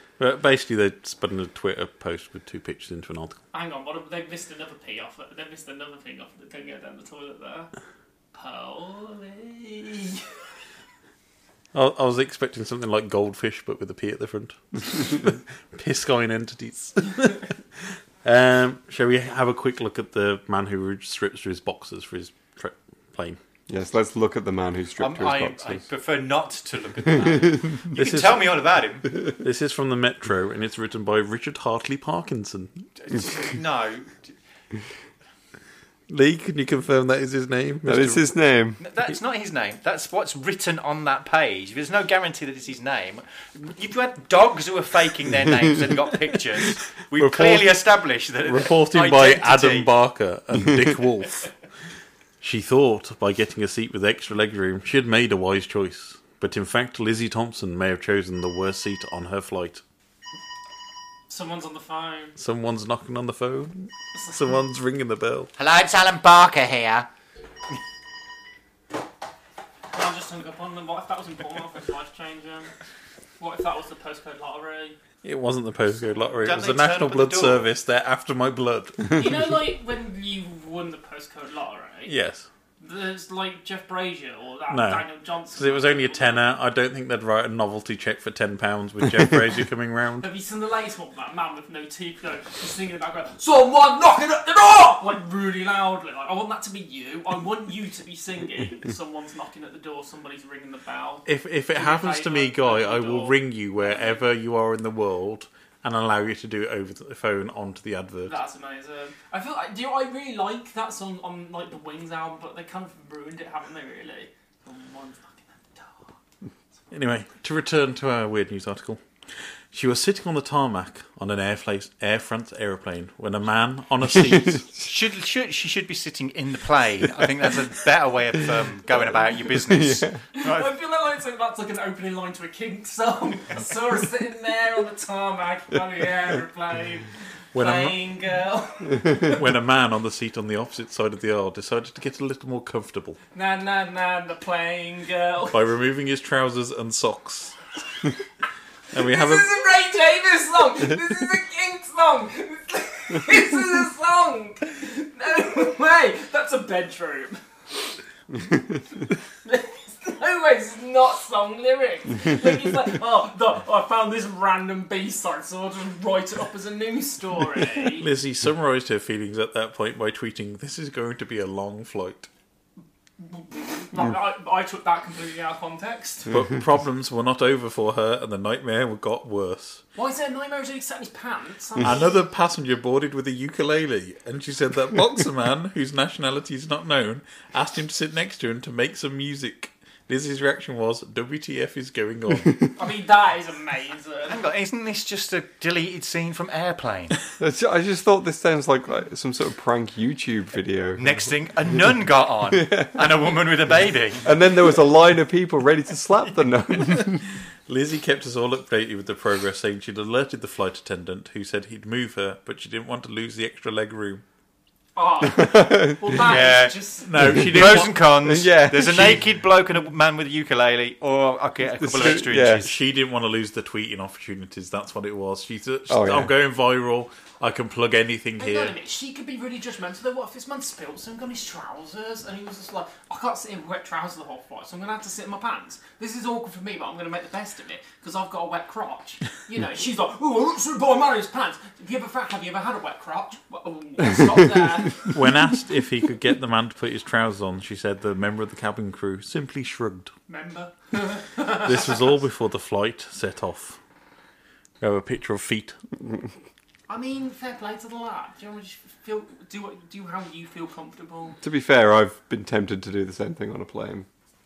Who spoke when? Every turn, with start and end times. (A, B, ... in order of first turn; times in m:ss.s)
0:00.2-0:03.4 A
0:03.5-0:07.7 B
0:08.3-0:10.3 B
0:11.7-0:17.5 A
0:18.2-0:23.4 A
0:23.7-0:25.8 C
0:25.0-0:29.1 D
0:27.9-0:28.6 A
0:29.3-0:32.8 A
0:33.0-0:34.4 D
0:36.1-0:38.3 A
0:37.8-0:38.8 C
0:38.8-0:49.9 D
0:47.2-0:47.8 A
0:48.4-0:51.5 A
0:52.4-0:59.8 A
1:01.3-1:02.4 B
1:02.4-1:05.5 A
1:04.1-1:04.4 B
1:05.6-1:07.1 D
1:09.9-1:12.7 B
1:13.4-1:15.0 B
1:15.2-1:19.2 A
1:16.4-1:17.7 D
1:19.2-1:22.1 B
1:22.1-1:22.5 A
1:22.8-1:26.5 B
1:24.7-1:30.3 A
1:30.2-1:44.3 B
1:41.3-1:48.4 A
1:48.3-1:56.1 B
1:56.9-1:59.0 A
1:59.7-2:04.7 A
2:04.8-2:10.7 D
2:09.7-2:10.2 C
2:10.4-2:19.4 B
2:17.5-2:18.0 A
2:19.2-2:23.2 A
2:23.3-2:25.6 B
2:25.5-2:27.6 A
2:28.9-2:29.5 A
2:29.0-2:37.4 B
2:39.4-2:48.1 B
2:47.9-2:52.3 A
2:53.2-2:56.3 B
2:56.3-2:59.8 A
3:00.0-3:02.2 B
3:01.8-3:12.7 A
3:12.8-3:14.4 B
3:14.3-3:17.2 D
3:17.4-3:21.2 C
3:21.0-3:24.3 D
3:22.6-3:22.9 C
3:24.2-3:27.2 C
3:27.7-3:34.2 A
3:35.0-3:37.1 B
3:35.4-3:36.1 C
3:36.2-3:42.8 D
3:37.0-3:38.1 A
3:38.2-3:39.2 C
3:41.8-3:42.7 C
3:42.6-3:48.7 A
3:45.9-3:46.3 C
3:48.4-4:05.1 B
4:05.1-4:10.1 A
4:10.3-4:12.0 B
4:11.4-4:13.8 A
4:14.8-4:15.8 A
4:16.9-4:21.4 B
4:21.4-4:24.1 C